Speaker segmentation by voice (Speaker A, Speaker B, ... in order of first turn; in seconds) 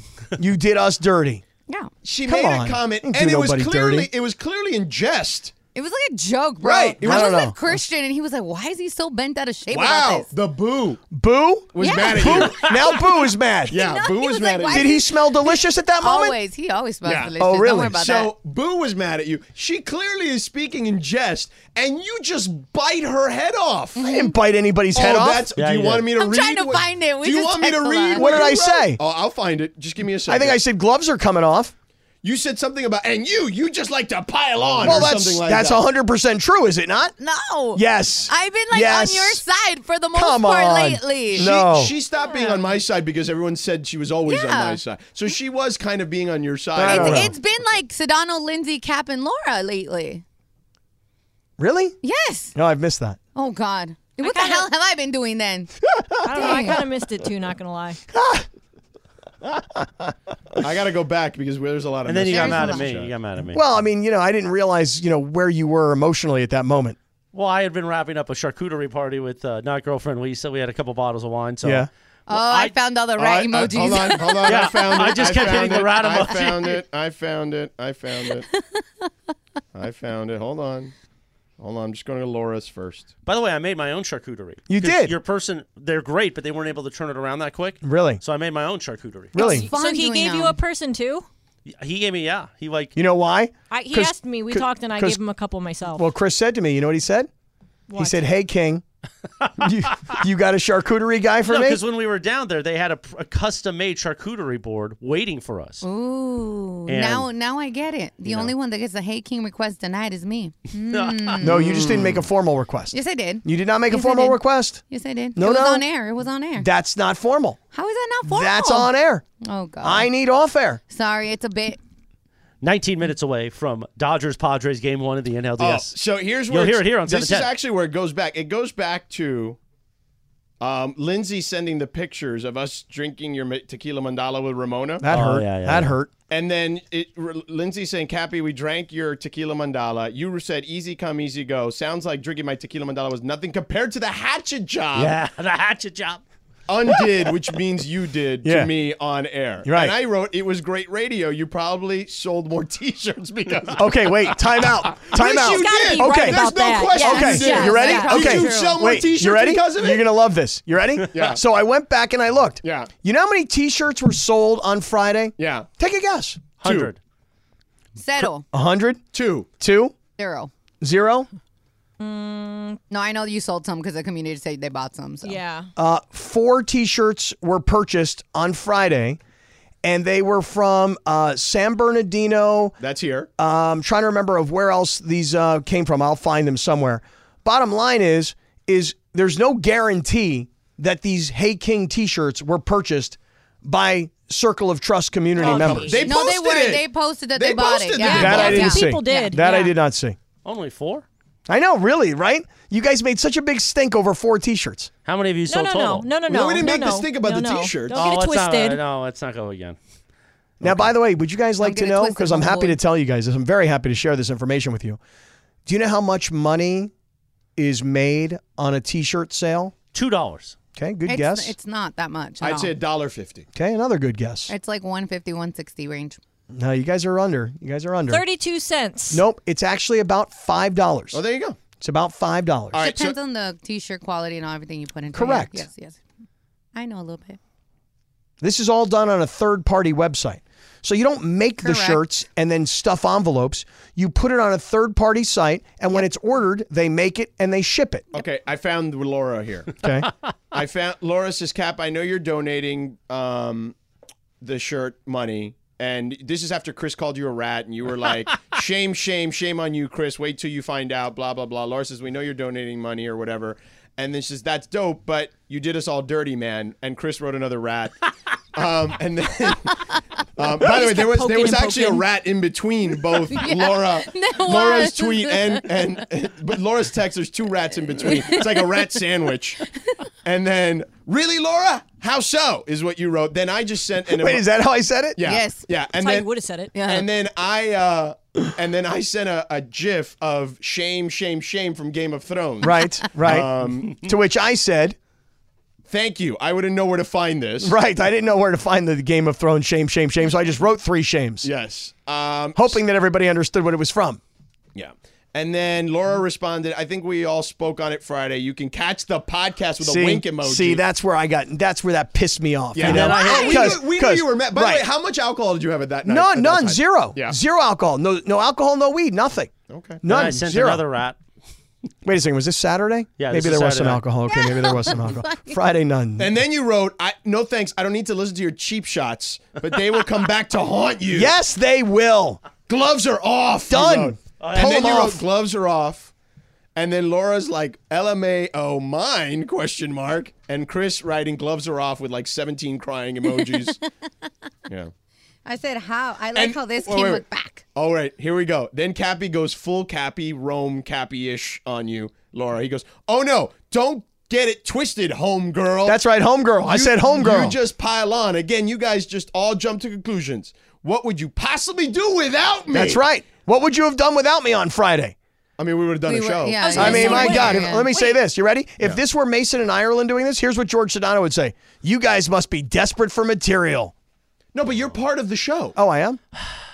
Speaker A: 0.4-1.4, 2.2-4.1, 7.0-7.5, 11.1-13.8, 14.7-16.4, 17.4-18.0, 24.0-25.5, 28.1-29.0, 30.3-31.7, 34.8-37.1, 37.7-39.4, 40.1-41.9, 46.8-47.3, 51.6-52.0, 52.5-53.2, 56.0-56.7, 58.1-58.5, 63.5-67.0, 71.6-71.9, 84.7-85.1, 87.8-88.2, 89.3-89.7, 93.0-95.2, 95.9-97.3, 97.9-98.8, 99.6-101.8, 111.4-114.8, 115.3-115.8, 116.6-117.6, 118.2-119.2, 119.8-120.8, 135.0-136.1, 148.4-148.7, 149.6-149.9, 153.8-156.5, 157.0-166.4, 168.2-169.0, 169.6-169.9, 170.8-171.3, 175.8-179.2, 179.8-182.8, 183.4-196.0, 198.1-200.2, 201.5-204.9, 210.6-215.0, 215.7-216.9, 217.6-219.7, 220.8-221.5, 223.5-224.5, 226.5-228.2, 229.1-231.2, 231.8-232.8, 235.1-235.7, 238.4-248.1, 249.8-250.1, 284.1-285.2, 292.6-295.0, 297.6-301.5, 302.6-304.2, 309.8-314.9, 316.1-320.9, 322.0-326.3, 331.1-332.4, 333.7-335.2, 355.8-357.6, 362.7-365.1, 366.7-373.9, 375.8-376.2
Speaker B: 2.0-5.5, 6.6-7.5, 9.7-11.0, 11.7-12.9, 13.7-14.9, 17.0-17.3, 17.9-24.0, 24.9-30.6, 32.2-35.8, 41.3-47.3, 60.6-63.1, 73.2-78.5, 79.7-80.9, 81.6-83.1, 111.7-112.1, 125.6-129.6, 130.6-135.1, 136.3-145.2, 146.7-160.1, 161.1-161.4, 162.6-162.9, 165.4-165.7, 166.6-166.9, 169.1-169.5, 182.8-183.3, 195.4-198.7, 206.2-208.1, 222.4-223.5, 231.1-231.6, 232.7-233.2, 248.1-249.8, 250.5-253.7, 254.4-267.9, 268.5-269.8, 270.4-279.6, 280.2-284.4, 285.2-286.3, 286.8-294.0, 295.9-297.7, 301.4-302.8, 304.7-310.8, 312.7-317.4, 319.7-320.0, 326.2-331.3, 332.7-336.1, 336.8-343.8, 346.3-347.2, 347.7-356.0, 356.6-363.0, 365.6-367.7, 374.5-375.8
Speaker C: 5.7-10.3, 11.8-13.0, 13.7-18.3, 23.9-24.4, 26.1-28.4, 37.2-41.5, 42.3-42.5, 44.2-44.8, 46.8-50.2, 52.0-52.5, 53.3-55.7, 56.2-56.8, 62.3-62.9, 72.3-75.8, 89.3-90.6, 105.8-112.2, 112.9-116.7, 117.7-120.1, 120.9-121.8, 157.0-158.8, 167.9-168.4, 170.2-170.5, 172.9-175.4, 196.0-199.4, 211.6-212.8, 221.1-222.7, 224.5-226.2, 232.8-236.0, 236.7-237.4, 241.6-242.0, 273.3-275.8, 278.0-278.9, 285.2-285.6, 286.7-287.1, 324.3-325.5, 343.3-343.8, 345.4-347.6, 366.1-367.9
Speaker D: 25.6-26.1, 62.0-63.6, 67.3-72.7, 74.4-76.8, 83.2-89.4, 91.7-93.0, 101.5-105.8, 106.9-107.3, 108.2-108.5, 110.9-111.5, 122.6-125.9, 126.5-127.5, 135.1-135.9, 144.9-146.2, 166.6-167.0, 200.4-201.0, 205.0-206.1, 207.9-209.8, 210.6-210.9, 219.9-220.6, 312.8-313.8, 320.1-321.2, 323.2-324.0, 334.4-335.0
Speaker E: 54.2-54.7, 56.2-58.0, 89.4-91.3, 93.7-96.1, 97.9-98.2, 155.2-158.2, 172.0-172.8, 175.2-175.7, 195.4-196.0, 198.0-199.7, 205.5-208.8, 228.1-229.2, 270.6-272.1, 285.9-286.7, 313.1-313.6, 366.6-368.2